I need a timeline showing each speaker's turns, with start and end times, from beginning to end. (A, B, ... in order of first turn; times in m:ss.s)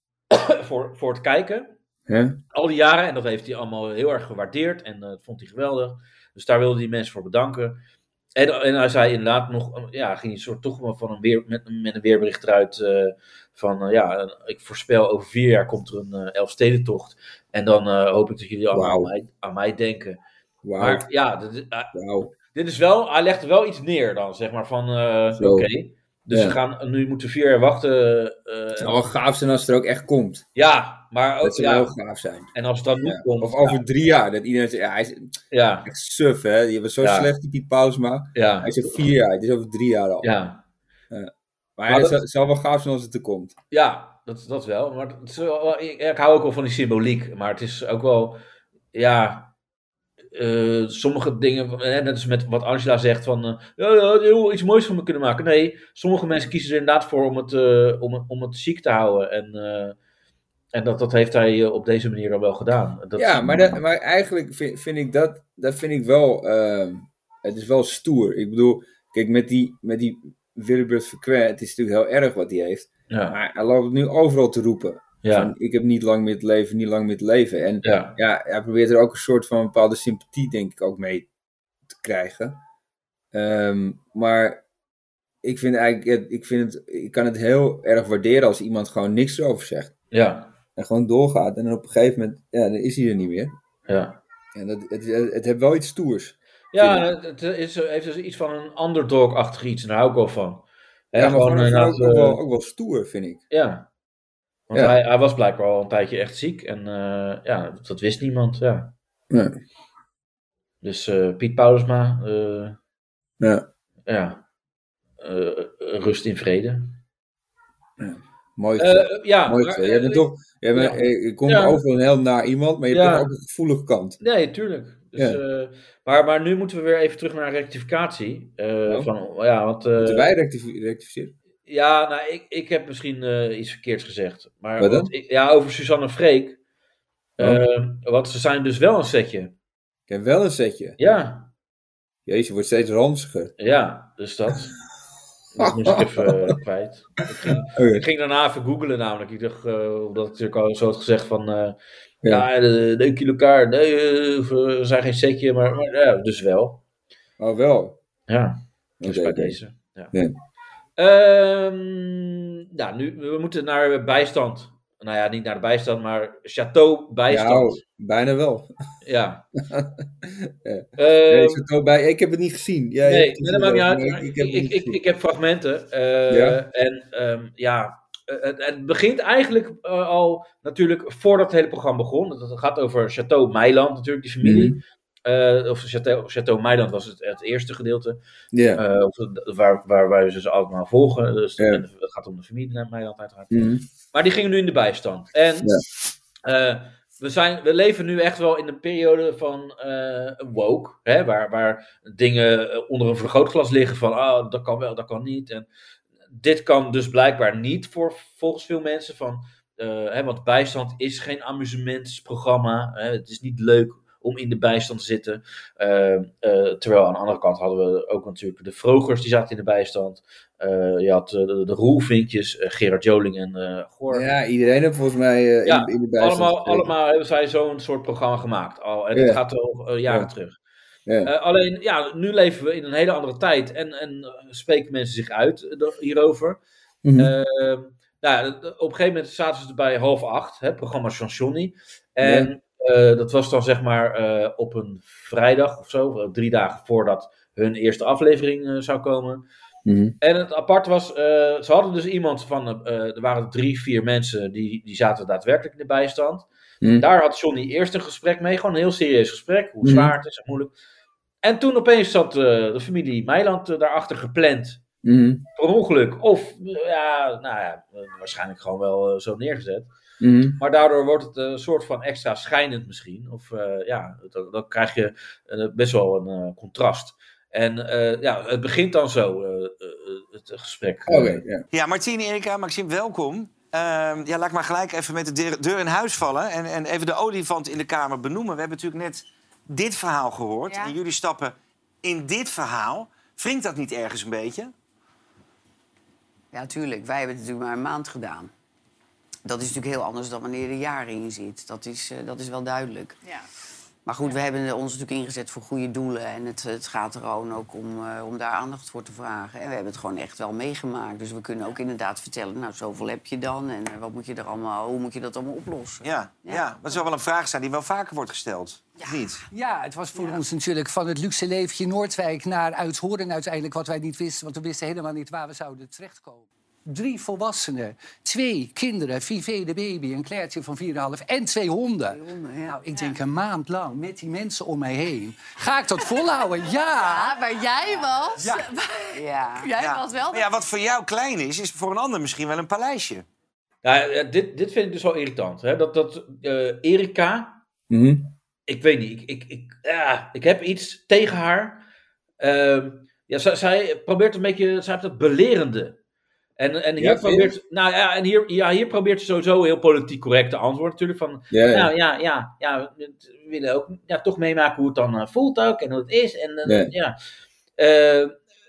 0:00.3-0:01.7 A
0:02.1-0:02.4 B
0:02.5-0:07.8 A
0:08.4-0:20.2 A
0:18.7-0:19.1 B
0:20.6-0:21.0 B
0:20.8-0:29.0 A
0:21.9-0:22.3 B
0:25.4-0:25.7 B
0:26.3-0:26.6 B
0:28.8-0:30.5 B
0:30.6-0:31.9 A
0:31.4-0:32.5 B
0:32.5-0:33.8 A
0:33.0-0:35.3 B
0:35.5-0:35.9 A
0:35.8-0:40.3 B
0:37.0-0:37.3 A
0:38.4-0:39.0 A
0:40.2-0:40.6 A
0:41.1-0:43.6 B
0:41.9-0:42.2 A
0:43.7-0:48.4 A
0:48.9-0:49.5 A
0:50.3-1:00.0 A
1:00.7-1:03.8 A
1:03.2-1:21.3 B
1:13.1-1:13.4 A
1:15.2-1:15.5 A
1:17.8-1:18.2 A
1:21.9-1:22.6 B
1:23.3-1:24.6 B
1:25.4-1:30.0 B
1:30.1-1:30.5 A
1:30.8-1:33.5 B
1:33.9-1:34.2 A
1:34.6-1:37.1 B
1:36.7-1:42.4 A
1:41.2-1:43.4 B
1:43.5-1:43.9 A
1:44.7-1:48.9 A
1:49.3-1:49.6 B
1:50.8-1:52.8 A
1:53.4-1:53.7 B
1:54.1-1:54.4 A
1:55.2-1:57.0 A
1:58.0-2:04.2 B
1:58.8-2:01.8 A
2:02.9-2:03.3 A
2:04.2-2:10.3 A
2:10.0-2:11.3 B
2:11.7-2:16.6 A
2:14.8-2:15.1 B
2:17.4-2:19.5 A
2:20.1-2:21.0 B
2:21.0-2:21.5 A
2:22.3-2:23.5 B
2:23.6-2:24.7 A
2:25.6-2:36.8 A
2:25.6-2:26.3 B
2:27.8-2:28.0 B
2:37.4-2:38.0 B
2:38.3-2:40.1 A
2:39.0-2:39.6 B
2:41.0-2:47.8 A
2:47.3-2:48.7 B
2:49.0-2:49.5 A
2:49.7-2:55.0 B
2:51.0-2:51.6 A
2:53.0-3:08.2 A
2:56.3-2:56.6 B
3:04.4-3:04.8 B
3:08.5-3:08.8 B
3:08.8-3:15.8 A
3:11.6-3:11.8 B
3:13.5-3:13.8 B
3:16.4-3:25.7 A
3:26.3-3:44.3 A
3:44.1-3:46.9 B
3:45.6-3:50.6 A
3:49.1-3:49.4 B
3:51.2-3:56.6 A
3:57.0-3:57.3 B
3:57.2-4:09.5 A
4:02.2-4:02.5 B
4:09.9-4:10.2 B
4:10.2-4:16.5 A
4:16.8-4:17.1 B
4:17.0-4:20.7 A
4:19.8-4:20.1 B
4:21.4-4:24.8 A
4:25.0-4:25.4 B
4:25.6-4:29.9 A
4:30.2-4:30.6 B
4:30.6-4:41.4 A
4:41.1-4:41.6 B
4:41.7-4:54.7 C
4:56.5-4:58.5 D
4:59.4-5:03.2 D
5:04.1-5:17.0 D
5:16.0-5:19.4 C
5:19.5-5:37.4 E
5:32.1-5:32.8 D
5:37.0-5:40.4 F
5:38.4-5:38.7 E
5:39.1-5:39.7 D
5:39.8-5:43.2 C
5:43.8-5:47.6 A
5:47.9-5:48.3 B
5:48.7-5:51.8 A
5:52.4-5:56.0 A
5:56.6-6:07.2 A
5:57.0-5:57.6 B
6:01.5-6:01.9 B
6:06.6-6:06.9 B
6:07.8-6:08.4 A